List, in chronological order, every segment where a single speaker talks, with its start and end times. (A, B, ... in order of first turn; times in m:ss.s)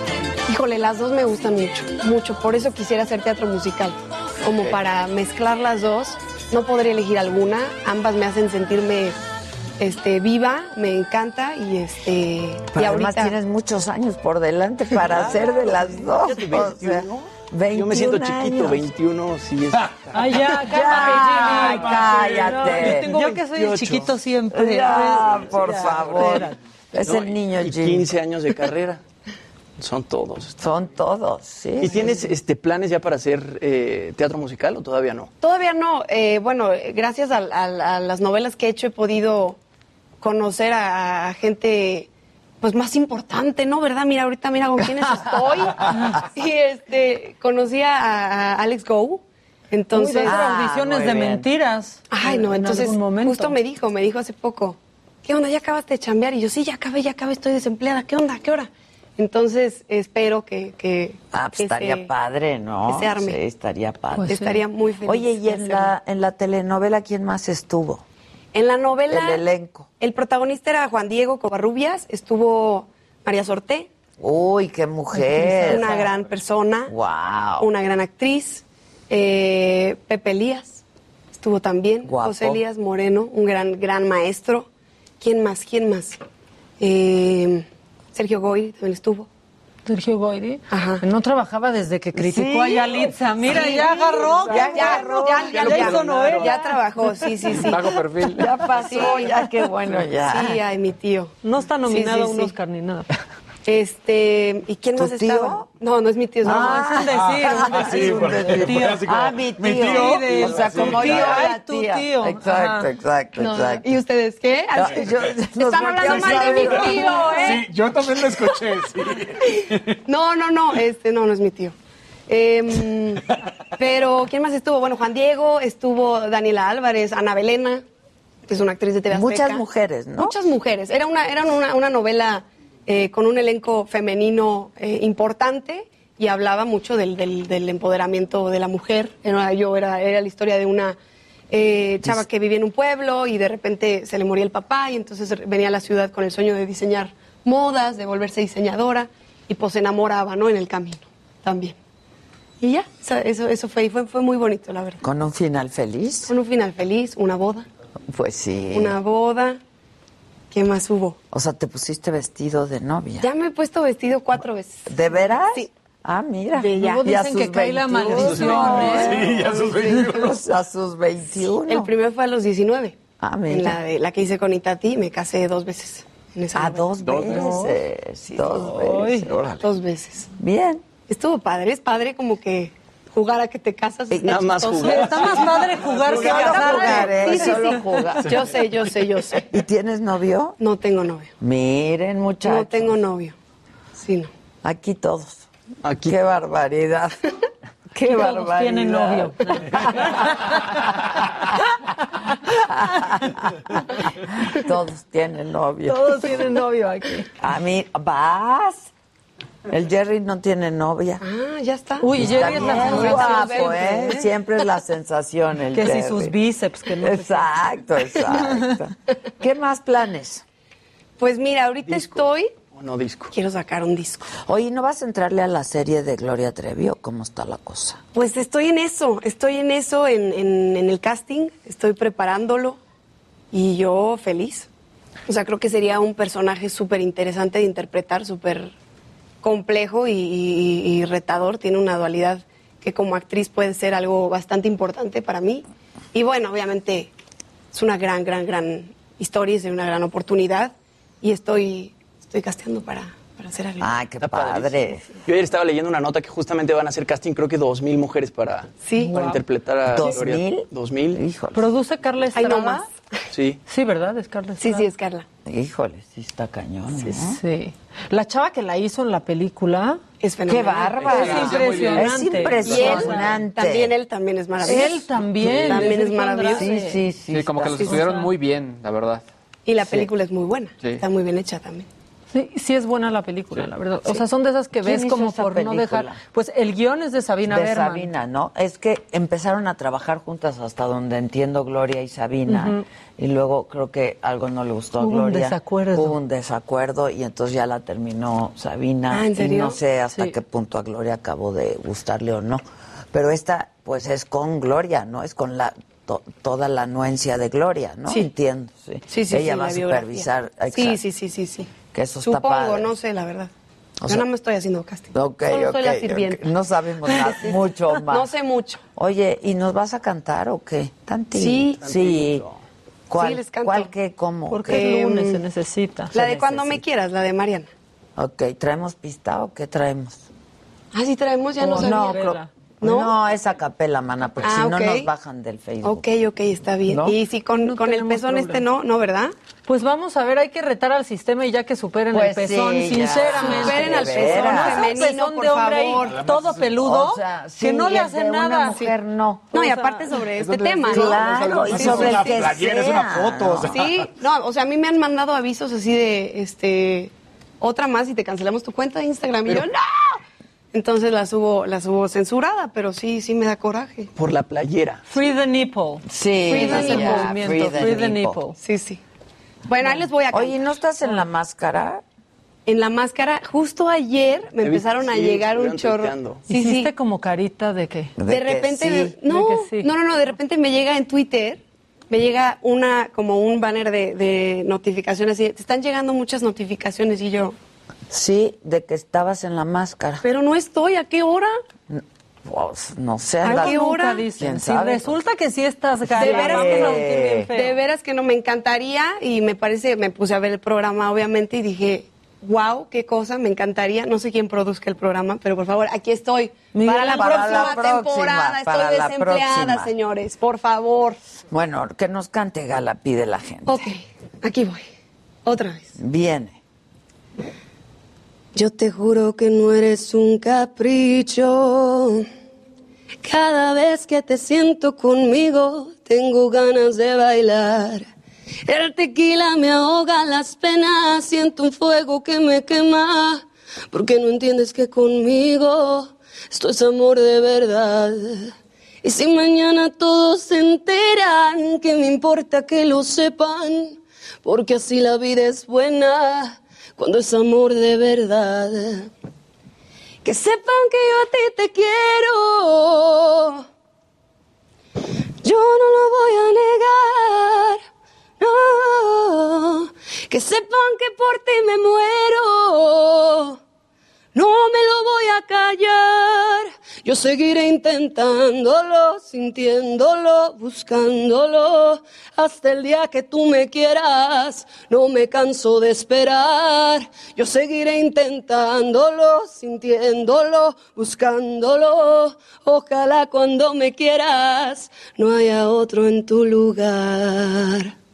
0:00.5-0:09.2 A
0:09.8-0:13.4 A
0:12.7-0:18.8 B
0:16.0-0:20.4 C
0:20.1-0:26.6 D
0:20.6-0:23.1 B
0:21.4-0:22.6 E
0:23.0-0:24.0 C
0:24.5-0:28.1 B
0:27.0-0:29.0 C
0:29.8-0:30.6 C
0:30.6-0:32.3 B
0:31.8-0:35.3 C
0:35.4-0:39.6 A
0:40.2-0:42.1 A
0:42.6-0:50.4 A
0:49.9-0:53.6 D
0:50.2-0:51.5 B
0:52.1-1:02.1 A
1:01.3-1:04.4 B
1:02.9-1:03.4 A
1:04.1-1:04.6 D
1:04.3-1:05.9 A
1:05.0-1:08.0 B
1:08.5-1:09.4 A
1:09.1-1:09.9 B
1:10.0-1:13.9 A
1:14.2-1:16.1 B
1:15.2-1:16.1 D
1:15.4-1:16.9 A
1:16.9-1:17.7 B
1:17.6-1:20.8 A
1:21.3-1:24.7 A
1:22.0-1:22.6 B
1:25.2-1:26.2 A
1:26.8-1:29.3 A
1:29.9-1:37.5 D
1:30.7-1:31.0 A
1:32.2-1:33.7 B
1:33.5-1:38.0 A
1:34.3-1:36.0 B
1:37.6-1:38.6 F
1:38.3-1:40.6 B
1:38.7-1:39.4 A
1:40.2-1:41.4 A
1:41.4-1:43.1 D
1:41.9-1:42.5 A
1:43.6-1:46.9 A
1:45.0-1:45.7 B
1:46.4-1:53.9 B
1:46.4-1:49.2 D
1:47.2-1:51.4 E
1:49.8-1:52.9 D
1:53.4-1:57.6 A
1:54.7-1:57.5 B
1:56.0-1:59.8 E
1:56.6-1:57.6 D
1:59.4-2:01.7 A
2:02.3-2:03.2 A
2:03.8-2:07.8 A
2:08.5-2:09.6 A
2:09.1-2:10.4 B
2:10.2-2:21.0 A
2:21.5-2:31.8 A
2:32.6-2:35.0 A
2:35.0-2:36.3 B
2:36.3-2:37.7 A
2:38.1-2:39.0 B
2:38.7-2:39.6 A
2:40.5-2:41.2 A
2:41.3-2:43.3 B
2:43.2-2:44.9 A
2:44.9-2:51.9 B
2:46.5-2:47.0 A
2:46.7-2:49.4 D
2:48.2-2:50.3 E
2:49.5-2:50.1 A
2:51.7-2:53.0 A
2:53.2-2:53.8 B
2:53.5-2:57.0 A
2:56.6-2:59.3 B
2:57.2-2:57.8 D
2:58.6-2:59.3 D
2:59.2-2:59.6 E
2:59.6-3:00.3 A
3:00.4-3:00.8 B
3:01.1-3:05.0 A
3:04.1-3:04.6 B
3:04.2-3:06.6 C
3:04.8-3:08.4 D
3:06.0-3:08.5 B
3:06.3-3:09.4 A
3:09.5-3:10.6 B
3:10.6-3:11.3 A
3:11.4-3:13.0 B
3:12.4-3:13.4 A
3:14.0-3:14.3 A
3:14.6-3:15.5 B
3:15.8-3:16.2 C
3:16.0-3:17.2 B
3:17.9-3:20.8 B
3:18.0-3:20.8 D
3:22.7-3:26.4 B
3:25.9-3:27.3 D
3:27.4-3:28.9 B
3:29.7-3:31.2 B
3:31.2-3:34.2 A
3:32.0-3:34.3 D
3:32.1-3:36.4 B
3:35.7-3:37.6 D
3:37.0-3:40.4 B
3:38.3-3:38.7 D
3:41.2-3:42.5 A
3:41.8-3:43.3 C
3:43.3-3:44.3 A
3:44.4-3:48.0 B
3:48.2-3:52.8 A
3:53.5-3:54.7 A
3:55.3-3:58.7 A
3:59.4-4:07.1 A
4:07.7-4:13.9 A
4:13.8-4:15.1 B
4:14.2-4:21.2 C
4:18.8-4:19.2 A
4:18.9-4:19.4 D
4:19.9-4:21.7 B
4:21.5-4:22.9 D
4:22.3-4:22.9 A
4:23.3-4:23.6 C
4:23.7-4:24.9 D
4:24.6-4:25.3 A
4:25.4-4:27.4 B
4:27.0-4:30.0 D
4:30.2-4:31.2 A
4:30.5-4:33.9 B
4:31.0-4:33.4 D
4:31.0-4:32.8 F
4:32.6-4:36.7 A
4:34.6-4:37.0 D
4:36.6-4:38.0 B
4:37.3-4:39.2 F
4:37.8-4:38.3 D
4:39.7-4:41.9 A
4:42.3-4:48.1 D
4:44.8-4:46.2 B
4:47.5-5:11.0 B
4:52.5-4:52.8 D
4:55.0-4:56.2 D
4:59.1-4:59.8 A
5:09.1-5:13.5 A
5:11.9-5:12.9 B
5:14.1-5:16.5 A
5:15.1-5:18.3 B
5:17.0-5:18.8 A
5:19.0-5:22.5 B
5:21.3-5:21.8 A
5:21.8-5:22.6 C
5:23.1-5:24.9 B
5:23.2-5:23.9 A
5:24.5-5:26.7 D
5:24.7-5:25.4 A
5:26.1-5:27.7 A
5:28.2-5:30.3 B
5:30.9-5:32.2 A
5:31.6-5:32.5 D
5:31.6-5:36.0 B
5:32.8-5:33.1 A
5:34.4-5:35.1 A
5:35.8-5:39.3 A
5:36.9-5:37.2 B
5:37.6-5:38.7 D
5:39.7-5:48.9 D
5:42.1-5:44.8 B
5:43.2-5:46.2 A
5:46.0-5:46.7 E
5:46.8-5:49.6 B
5:49.5-5:50.2 D
5:49.5-5:52.5 A
5:50.4-5:54.1 E
5:50.9-5:53.9 B
5:53.7-6:00.2 A
6:00.7-6:04.1 A
6:04.2-6:05.0 C
6:05.1-6:08.6 D
6:06.0-6:08.4 B
6:06.5-6:07.4 A
6:08.6-6:09.0 A
6:09.7-6:10.8 A
6:10.3-6:12.0 B
6:12.7-6:16.9 A
6:14.6-6:16.5 C
6:16.5-6:18.2 D
6:18.2-6:19.1 B
6:18.3-6:27.6 A
6:19.2-6:19.9 D
6:28.1-6:30.2 B
6:30.2-6:31.6 A
6:31.9-6:35.2 B
6:33.4-6:34.2 A
6:33.4-6:37.8 D
6:36.1-6:37.5 B
6:36.1-6:51.2 A
6:46.8-6:49.9 B
6:47.1-6:47.6 D
6:51.5-6:53.8 B
6:53.7-6:54.9 A
6:55.5-6:55.9 A
6:56.0-6:56.6 B
6:58.5-7:02.3 A
7:03.2-7:08.1 A
7:08.7-7:18.5 A
7:19.0-7:29.1 A
7:30.2-7:33.6 A
7:35.4-7:37.8 A
7:38.4-7:43.6 A
7:44.4-8:07.9 A